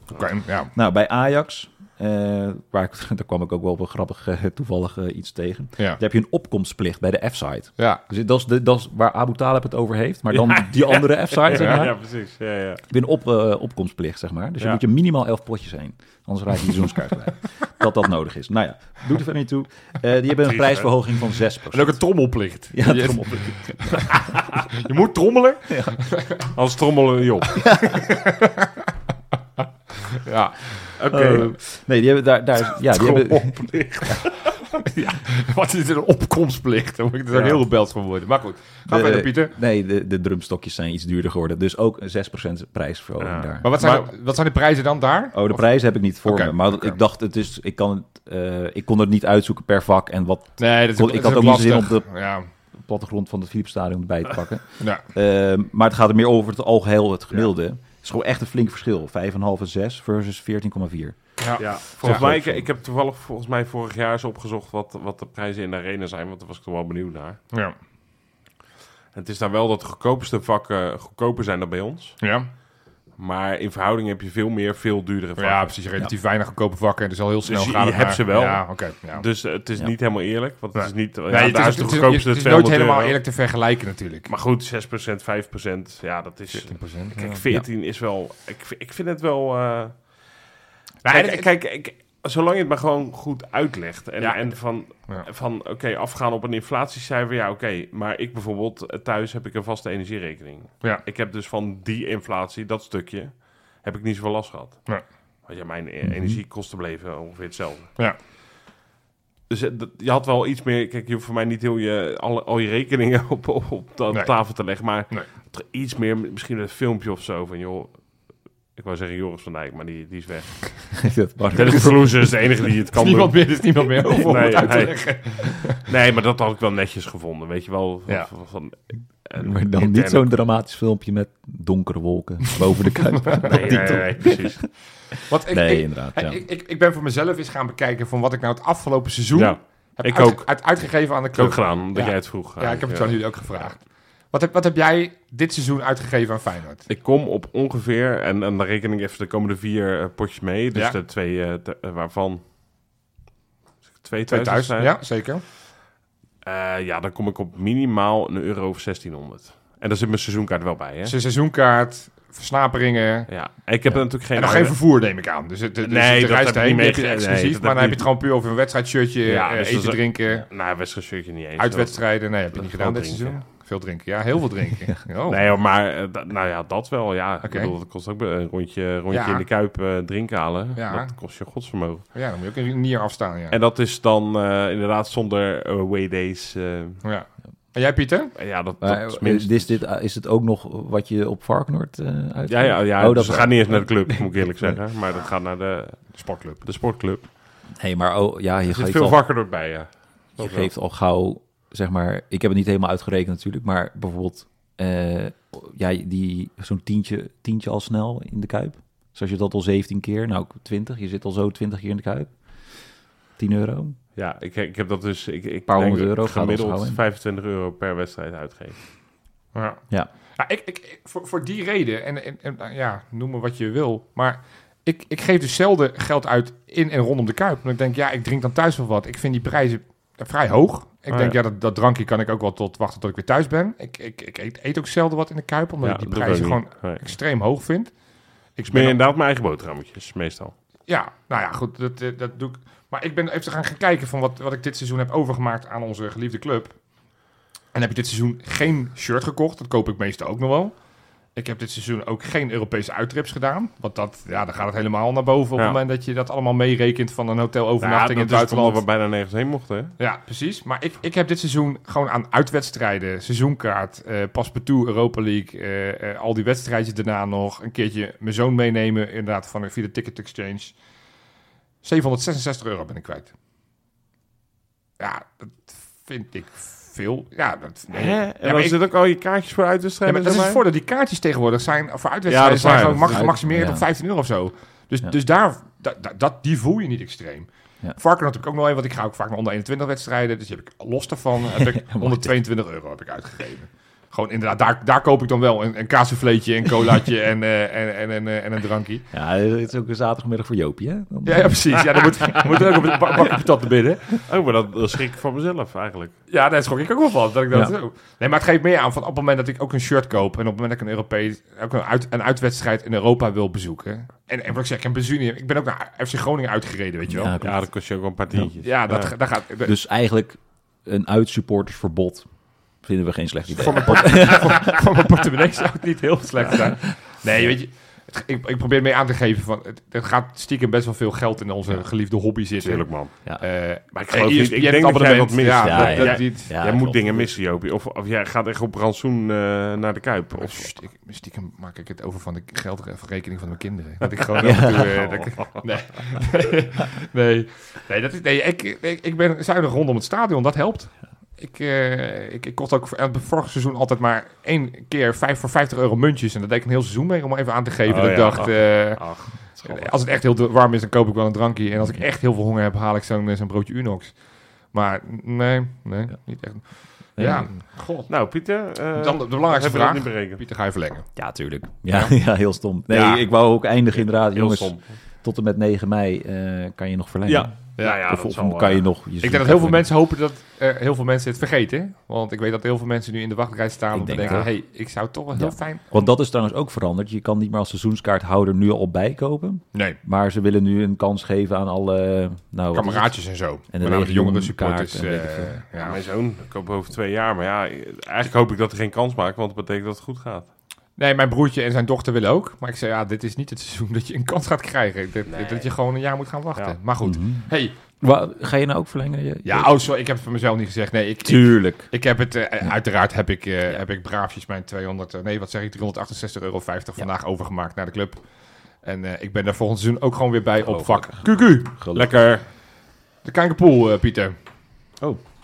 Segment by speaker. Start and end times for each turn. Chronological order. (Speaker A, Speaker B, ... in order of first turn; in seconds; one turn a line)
Speaker A: 0.1-0.7
Speaker B: 0.7-11.9
Speaker C: 10.3-12.8
Speaker A: 11.5-11.8
Speaker B: 12.9-22.0
Speaker C: 20.4-20.9
Speaker A: 21.7-26.5
Speaker B: 22.7-24.3
Speaker B: 25.7-26.0
Speaker C: 26.5-27.6
Speaker B: 27.6-28.0
Speaker A: 27.8-28.9
Speaker A: 30.1-30.6
Speaker C: 31.0-31.5
Speaker B: 31.1-34.2
Speaker C: 32.9-34.4
Speaker A: 34.7-39.5
Speaker B: 37.3-37.6
Speaker B: 38.9-43.7
Speaker C: 43.2-44.1
Speaker A: 43.6-45.6
Speaker B: 45.3-52.1
Speaker A: 46.2-47.0
Speaker A: 50.6-52.5
Speaker B: 52.8-62.7
Speaker A: 61.4-62.3
Speaker C: 61.6-67.4
Speaker C: 69.1-72.2
Speaker A: 72.2-72.5
Speaker C: 73.2-75.7
Speaker A: 75.4-79.2
Speaker C: 77.4-83.2
Speaker A: 80.7-84.3
Speaker C: 84.3-90.2
Speaker A: 86.5-87.4
Speaker A: 91.0-91.5
Speaker C: 91.0-104.8
Speaker A: 94.2-94.5
Speaker C: 105.5-107.9
Speaker B: 106.0-106.4
Speaker C: 109.5-118.1
Speaker C: 118.7-121.0
Speaker B: 121.0-122.1
Speaker C: 121.5-130.3
Speaker A: 121.6-121.9
Speaker A: 122.9-125.8
Speaker B: 129.4-136.4
Speaker A: 132.9-134.3
Speaker C: 133.4-134.6
Speaker A: 135.3-146.8
Speaker C: 139.3-140.7
Speaker C: 141.3-143.4
Speaker C: 146.9-152.4
Speaker C: 154.0-155.0
Speaker A: 154.3-155.4
Speaker C: 156.4-161.2
Speaker A: 161.0-163.3
Speaker C: 163.3-164.8
Speaker A: 164.3-170.5
Speaker C: 165.8-168.0
Speaker C: 169.3-173.4
Speaker A: 171.6-175.4
Speaker C: 175.3-182.0
Speaker A: 177.4-177.7
Speaker A: 179.1-179.4
Speaker A: 180.8-181.1
Speaker A: 182.1-183.6
Speaker C: 183.5-187.0
Speaker A: 187.0-188.3
Speaker C: 188.3-189.8
Speaker B: 188.8-194.8
Speaker C: 192.5-197.2
Speaker A: 196.1-196.6
Speaker B: 197.8-199.2
Speaker C: 198.7-200.7
Speaker B: 200.4-212.3
Speaker B: 213.4-214.0
Speaker C: 214.2-218.8
Speaker B: 215.7-217.0
Speaker A: 219.5-219.8
Speaker A: 220.3-237.9
Speaker C: 231.1-231.4
Speaker C: 235.8-237.1
Speaker A: 238.6-239.0
Speaker C: 238.7-240.5
Speaker A: 240.9-246.7
Speaker A: 247.7-250.7
Speaker A: 251.3-258.8
Speaker C: 257.8-259.9
Speaker A: 260.0-270.8
Speaker A: 271.8-273.3
Speaker A: 275.0-278.8
Speaker C: 277.9-280.6
Speaker A: 280.0-299.0
Speaker C: 282.3-283.2
Speaker B: 283.1-283.9
Speaker B: 291.7-292.3
Speaker B: 299.1-302.3
Speaker A: 301.2-304.2
Speaker C: 304.2-306.1
Speaker A: 306.3-317.3
Speaker B: 317.1-317.6
Speaker C: 317.4-319.1
Speaker A: 318.6-319.7
Speaker B: 319.6-322.3
Speaker B: 322.8-324.8
Speaker A: 323.5-336.6
Speaker C: 332.6-333.4
Speaker C: 333.9-340.7
Speaker B: 335.5-337.3
Speaker A: 340.3-364.2
Speaker C: 344.0-345.6
Speaker B: 344.4-344.9
Speaker C: 357.9-359.9
Speaker A: 364.7-368.1
Speaker B: 367.1-367.4
Speaker C: 368.1-370.4
Speaker A: 368.9-371.1
Speaker B: 371.1-379.9
Speaker A: 371.9-372.2
Speaker A: 372.9-373.2
Speaker C: 374.0-374.9
Speaker C: 377.3-378.8
Speaker A: 379.2-386.1
Speaker B: 383.9-384.5
Speaker B: 385.3-393.2
Speaker A: 389.7-390.0
Speaker A: 392.7-396.0
Speaker B: 393.7-395.6
Speaker C: 395.7-400.5
Speaker A: 401.0-407.8
Speaker C: 405.3-405.7
Speaker B: 407.0-407.5
Speaker B: 408.0-409.7
Speaker A: 409.4-418.2
Speaker B: 411.2-411.9
Speaker A: 418.8-421.7
Speaker B: 420.6-421.2
Speaker B: 421.8-422.1
Speaker C: 421.9-422.4
Speaker A: 423.2-424.4